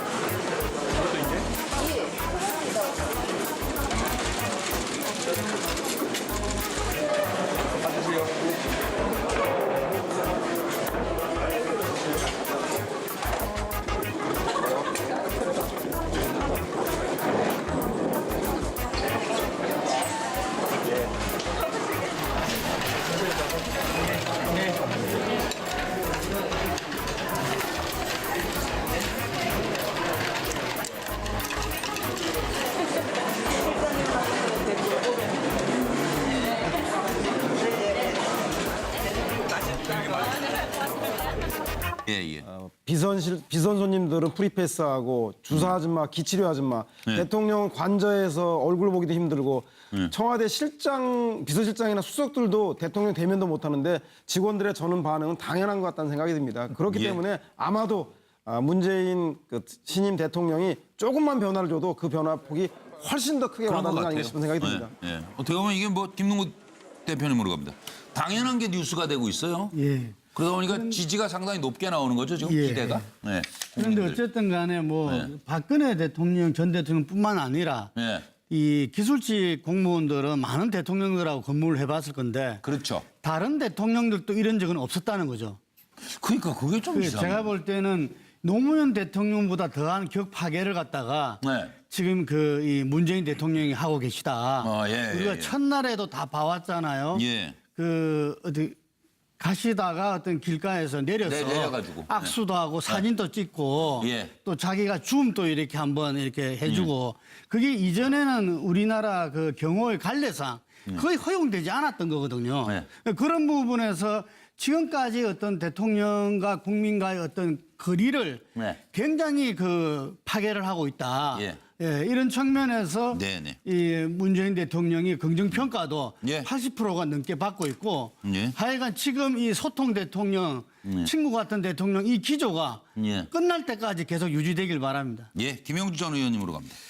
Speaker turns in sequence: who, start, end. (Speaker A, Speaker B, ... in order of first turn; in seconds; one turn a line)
Speaker A: 42.1-42.4
Speaker B: 42.4-64.9
Speaker A: 56.9-57.2
Speaker A: 63.6-69.8
Speaker C: 69.7-70.2
Speaker A: 70.3-74.2
Speaker C: 70.7-71.0
Speaker C: 72.4-73.1
Speaker C: 73.7-77.9
Speaker A: 75.0-75.3
Speaker A: 77.9-78.3
Speaker C: 78.5-82.6
Speaker A: 82.6-83.0
Speaker C: 83.2-85.6
Speaker A: 86.0-87.5
Speaker C: 86.9-98.8
Speaker A: 91.4-91.7
Speaker A: 94.6-95.5
Speaker A: 97.1-97.5
Speaker C: 99.4-135.3
Speaker A: 101.2-103.0
Speaker A: 104.0-104.3
Speaker A: 106.6-106.9
Speaker A: 121.3-121.6
Speaker A: 123.1-123.6
Speaker A: 126.2-126.5
Speaker A: 128.2-128.6
Speaker A: 130.8-131.1
Speaker A: 132.9-133.3
Speaker A: 135.3-136.8